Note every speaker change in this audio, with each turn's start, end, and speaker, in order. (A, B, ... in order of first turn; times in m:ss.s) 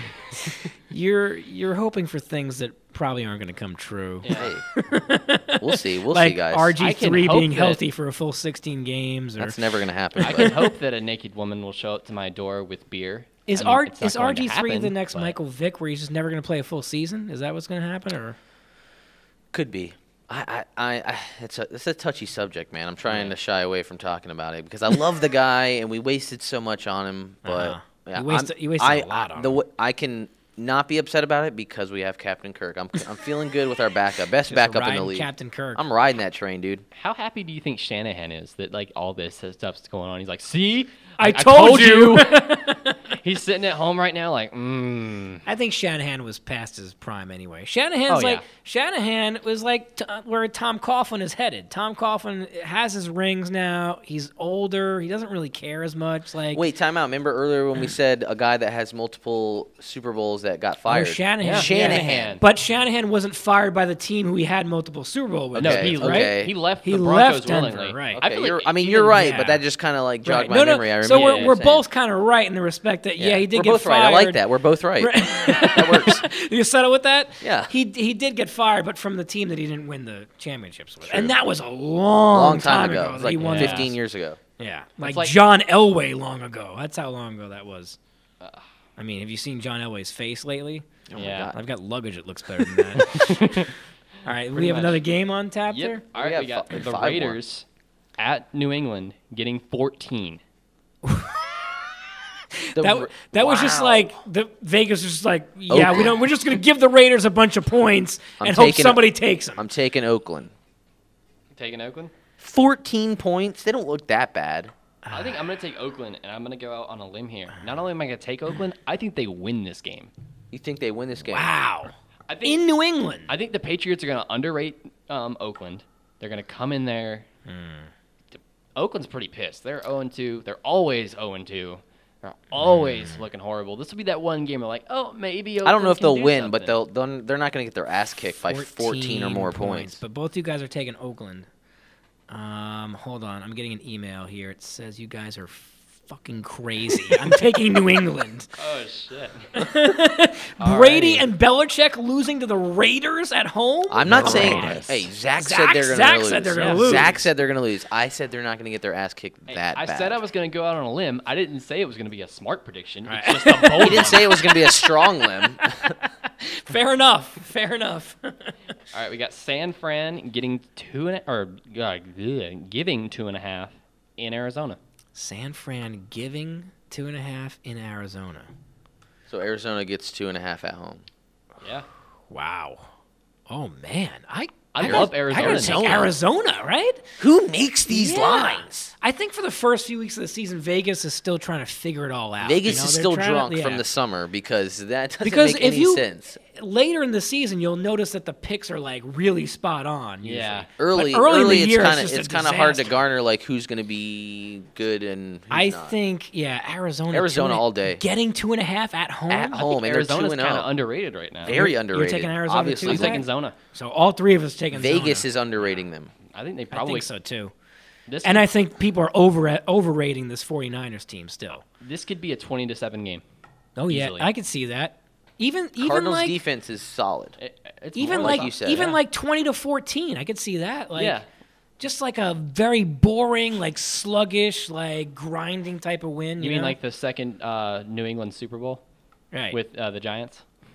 0:00.4-0:09.6 A
0:04.2-0:04.5 B
0:04.3-0:04.6 C
0:05.6-0:06.7 C
0:06.8-0:07.8 B
0:09.4-0:10.6 C
0:10.2-0:10.6 A
0:10.2-0:15.4 B
0:13.4-0:18.4 A
0:19.5-0:36.8 C
0:23.0-0:23.3 B
0:27.4-0:29.6 A
0:34.5-0:35.8 A
0:36.9-0:45.4 B
0:41.2-0:43.1 A
0:45.4-0:56.6 A
0:48.1-0:48.4 B
0:56.5-1:02.4 C
1:00.8-1:08.2 A
1:01.4-1:02.4 B
1:05.5-1:06.5 C
1:05.6-1:09.1 B
1:08.1-1:11.8 C
1:09.0-1:09.6 A
1:10.2-1:14.4 A
1:11.1-1:11.5 B
1:13.2-1:16.2 C
1:15.0-1:23.9 A
1:17.4-1:17.7 C
1:21.0-1:21.3 C
1:22.3-1:24.4 C
1:23.4-1:23.9 B
1:24.6-1:28.0 A
1:25.0-1:25.3 B
1:28.4-1:28.6 B
1:29.0-1:30.8 A
1:31.1-1:31.6 C
1:31.2-1:31.5 B
1:31.5-1:33.7 A
1:32.6-1:33.7 B
1:34.2-1:36.0 A
1:34.5-1:35.0 B
1:35.7-1:37.6 B
1:36.1-1:37.4 C
1:38.2-1:40.4 B
1:41.0-1:41.4 A
1:42.6-1:49.6 A
1:42.7-1:44.1 C
1:45.7-1:46.2 C
1:48.4-1:49.0 C
1:49.6-1:50.5 C
1:51.5-1:52.1 B
1:52.4-1:54.7 C
1:55.0-1:55.4 A
1:55.1-2:00.1 B
2:00.5-2:01.5 C
2:01.2-2:03.3 A
2:02.3-2:02.6 B
2:03.3-2:07.3 B
2:07.5-2:07.9 A
2:08.3-2:16.8 B
2:12.6-2:13.1 A
2:15.6-2:20.0 C
2:18.4-2:21.5 A
2:22.3-2:28.5 A
2:28.6-2:29.6 B
2:29.6-2:37.2 A
2:30.6-2:31.3 B
2:33.9-2:40.2 C
2:34.1-2:34.9 B
2:36.5-2:37.1 B
2:39.5-2:44.3 B
2:43.1-2:48.5 A
2:43.8-2:45.9 C
2:48.9-2:54.8 B
2:55.1-2:58.5 A
2:59.3-3:01.0 C
3:01.6-3:01.8 B
3:02.3-3:02.9 A
3:03.5-3:07.1 A
3:04.7-3:06.1 B
3:04.8-3:06.1 C
3:07.2-3:08.9 C
3:07.9-3:13.8 A
3:12.4-3:16.4 C
3:15.2-3:23.0 A
3:20.2-3:20.7 B
3:20.8-3:25.9 C
3:25.5-3:29.6 A
3:27.1-3:28.0 C
3:29.3-3:30.7 C
3:29.5-3:31.6 B
3:31.4-3:33.2 C
3:31.4-3:35.3 A
3:32.8-3:33.6 B
3:34.7-3:36.1 C
3:35.6-3:37.1 B
3:36.7-3:37.5 A
3:38.1-3:38.5 B
3:38.2-3:41.6 A
3:41.8-3:43.2 B
3:43.8-3:46.4 A
3:43.9-3:44.3 B
3:45.8-3:47.4 C
3:47.4-3:49.0 B
3:47.9-3:51.2 A
3:48.0-3:48.9 C
3:50.9-3:51.3 B
3:51.8-3:56.8 A
3:56.4-3:58.8 B
3:59.3-3:59.6 A
3:59.5-4:00.4 B